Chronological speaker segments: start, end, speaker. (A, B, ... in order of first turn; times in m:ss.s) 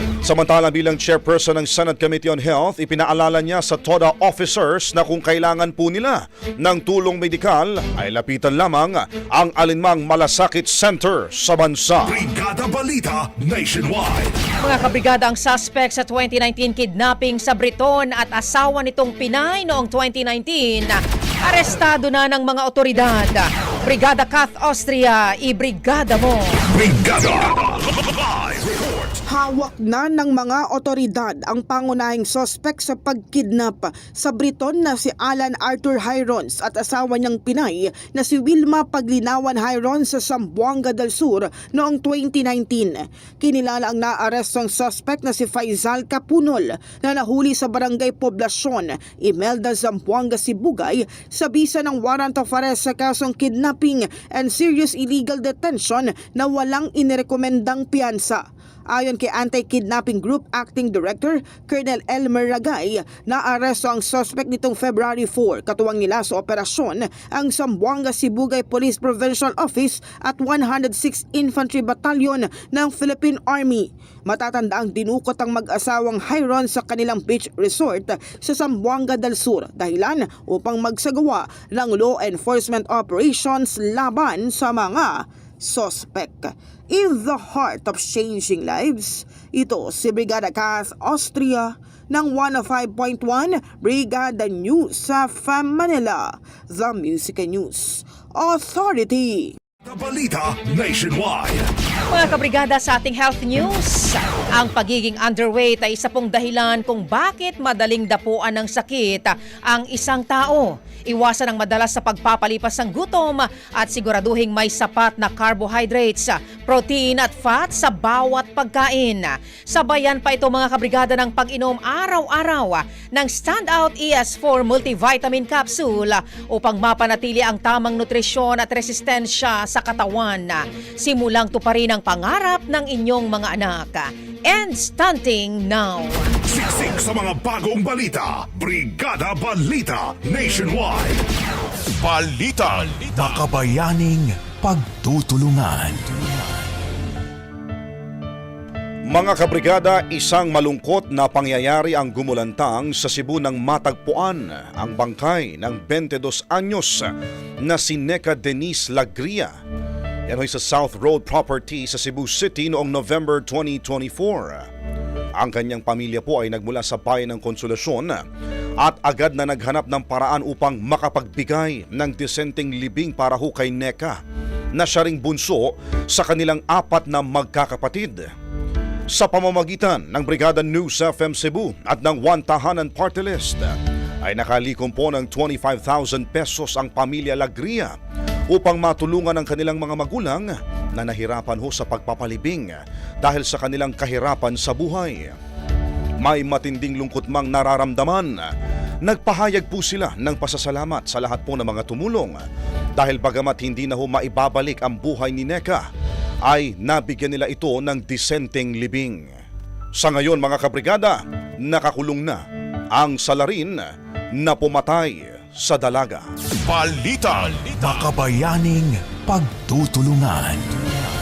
0:00.2-0:12.2 A
0:12.0-0:14.4 B
0:14.6-0:26.6 C
0:26.7-0:29.2 B
0:29.3-1:39.6 D
1:39.8-1:41.7 B
1:42.1-2:16.3 C
2:16.5-2:21.2 B
2:22.0-2:26.4 E
2:29.1-2:37.1 A
2:37.6-2:39.5 A
2:40.3-2:44.7 A
2:45.4-2:48.2 A
2:48.8-2:54.2 A
2:54.7-2:58.3 A
2:59.1-3:07.9 A
3:08.5-3:15.3 A
3:16.2-3:18.5 A
3:19.0-3:22.4 A
3:23.0-3:25.8 A
3:26.5-3:29.3 A
3:30.0-3:32.4 A
3:32.9-3:33.8 A
3:34.4-3:36.2 A
3:36.6-3:41.0 E